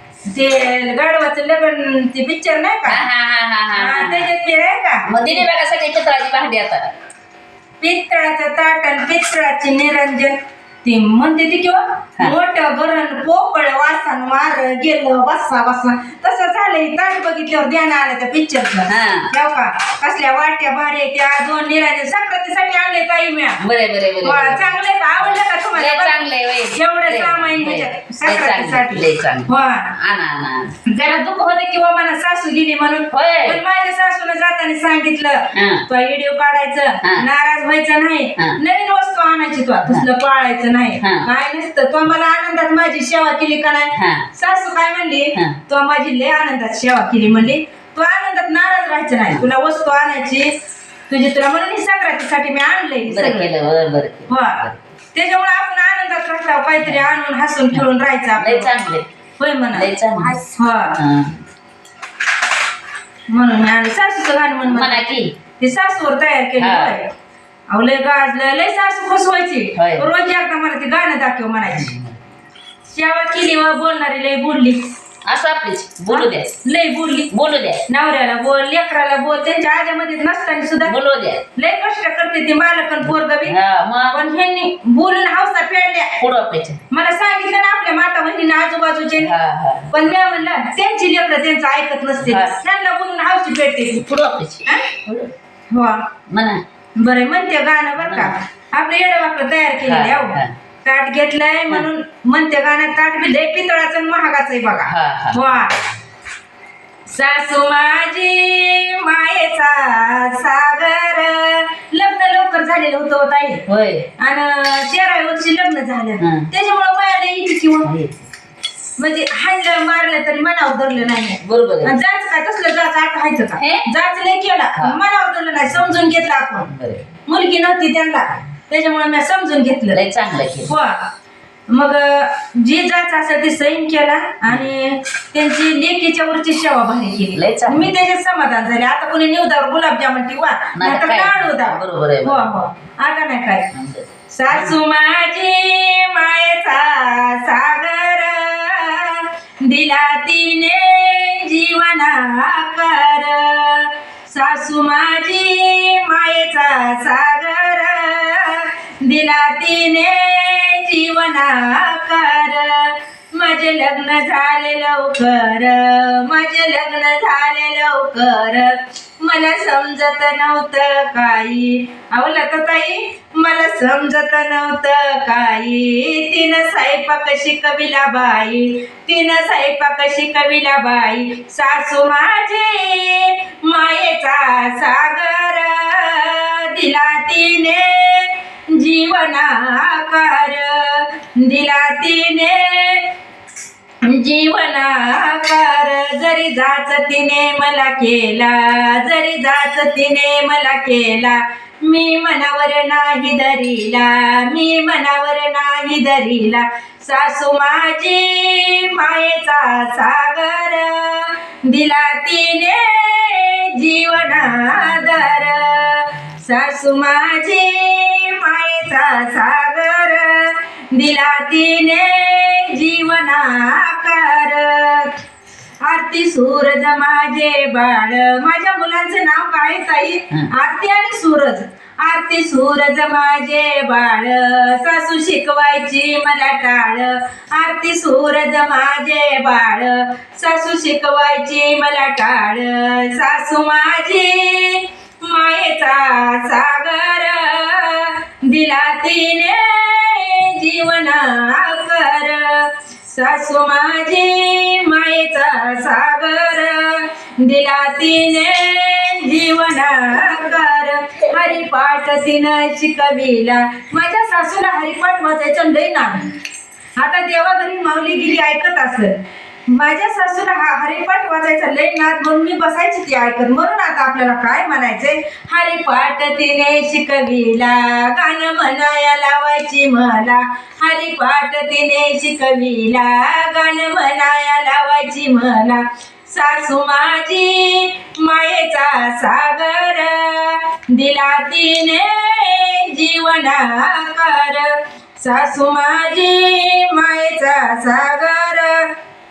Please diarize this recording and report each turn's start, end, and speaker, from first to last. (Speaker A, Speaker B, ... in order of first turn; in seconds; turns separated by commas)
Speaker A: 0.3-3.1, Speaker B: 2.9-4.3, Speaker A: 3.7-5.1, Speaker B: 5.1-6.9, Speaker A: 7.8-23.6, Speaker B: 18.9-19.3, Speaker B: 23.6-30.8, Speaker A: 24.2-26.2, Speaker A: 26.7-29.9, Speaker A: 30.9-50.5, Speaker B: 33.1-33.6, Speaker B: 35.5-35.9, Speaker B: 41.0-41.3, Speaker B: 43.9-44.3, Speaker A: 51.1-53.5, Speaker B: 53.1-54.9, Speaker A: 54.3-58.7, Speaker B: 57.7-59.1, Speaker A: 59.4-61.0, Speaker B: 59.7-60.4, Speaker B: 61.0-61.4, Speaker A: 63.3-65.1, Speaker B: 64.7-65.3, Speaker A: 65.6-67.1, Speaker B: 66.6-67.0, Speaker A: 67.7-71.9, Speaker B: 69.8-70.1, Speaker B: 71.7-72.2, Speaker A: 72.9-74.9, Speaker B: 75.3-76.5, Speaker A: 76.1-77.3, Speaker B: 77.3-77.9, Speaker A: 77.9-81.0, Speaker B: 80.8-81.5, Speaker A: 81.6-83.6, Speaker B: 83.5-84.2, Speaker A: 84.1-86.2, Speaker B: 86.2-86.8, Speaker A: 86.9-89.4, Speaker B: 89.2-89.9, Speaker A: 89.9-94.1, Speaker B: 92.2-92.6, Speaker B: 93.9-95.3, Speaker A: 95.7-96.1, Speaker B: 96.3-96.6, Speaker A: 97.0-105.8, Speaker B: 98.0-98.3, Speaker B: 99.8-100.5, Speaker B: 104.9-105.6, Speaker A: 107.1-113.6, Speaker B: 113.7-114.1, Speaker A: 114.2-117.9, Speaker B: 116.2-116.5, Speaker B: 117.8-118.3, Speaker A: 119.0-126.7, Speaker B: 121.4-121.9, Speaker B: 123.6-123.9, Speaker B: 126.7-127.1, Speaker A: 127.3-130.0, Speaker B: 129.9-130.7, Speaker A: 130.7-131.1, Speaker A: 131.7-143.7, Speaker B: 137.3-137.9, Speaker B: 140.8-142.6, Speaker B: 143.7-144.7, Speaker A: 144.3-193.1, Speaker A: 194.0-225.2, Speaker A: 225.8-266.3, Speaker A: 267.0-298.9